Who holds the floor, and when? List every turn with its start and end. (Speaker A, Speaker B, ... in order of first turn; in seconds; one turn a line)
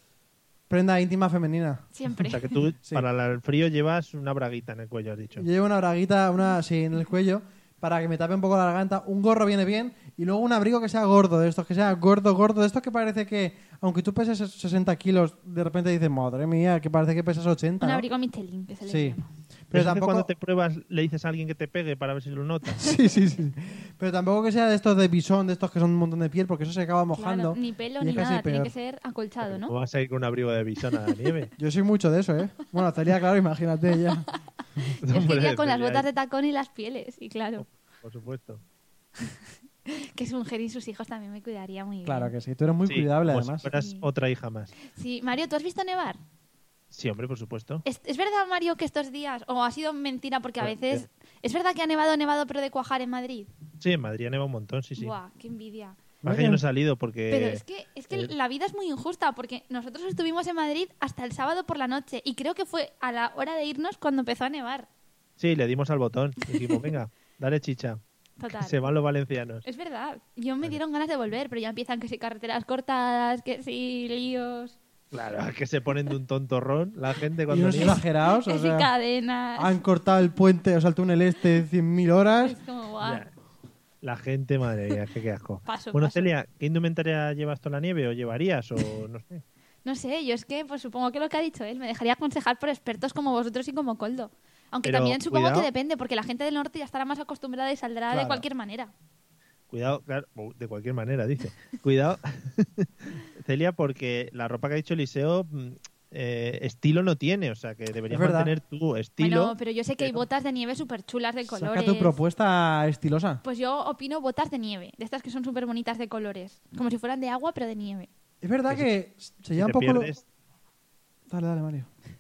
Speaker A: 0.7-1.9
Speaker B: 1.9-2.6
Speaker C: 2.3-5.5
Speaker A: 5.4-18.1
Speaker B: 17.8-19.3
Speaker A: 18.9-19.2
Speaker A: 19.7-20.3
Speaker C: 19.7-22.9
Speaker A: 22.8-28.7
Speaker B: 27.1-29.7
Speaker C: 29.4-31.5
Speaker A: 31.6-34.3
Speaker B: 34.1-37.6
Speaker C: 35.0-36.0
Speaker C: 37.6-38.6
Speaker B: 39.2-42.3
Speaker A: 42.0-43.7
Speaker C: 42.9-44.7
Speaker B: 43.7-44.0
Speaker B: 44.9-46.2
Speaker C: 46.9-47.8
Speaker B: 47.9-53.5
Speaker C: 50.6-51.0
Speaker C: 53.8-55.1
Speaker B: 55.0-56.0
Speaker A: 56.2-56.6
Speaker C: 56.2-58.3
Speaker B: 57.3-64.9
Speaker C: 65.4-68.0
Speaker B: 68.4-68.8
Speaker C: 68.5-69.7
Speaker B: 69.7-74.8
Speaker C: 75.1-78.0
Speaker A: 77.5-78.9
Speaker B: 78.4-79.7
Speaker A: 79.6-82.6
Speaker B: 82.4-83.2
Speaker C: 83.0-83.3
Speaker C: 84.0-89.4
Speaker B: 85.7-86.3
Speaker B: 89.8-98.9
Speaker C: 94.8-95.7
Speaker C: 98.1-98.4
Speaker C: 99.7-110.2
Speaker A: 108.1-108.5
Speaker B: 109.2-112.2
Speaker A: 111.5-113.4
Speaker B: 113.4-118.1
Speaker A: 118.4-120.1
Speaker C: 119.6-120.2
Speaker A: 121.3-121.9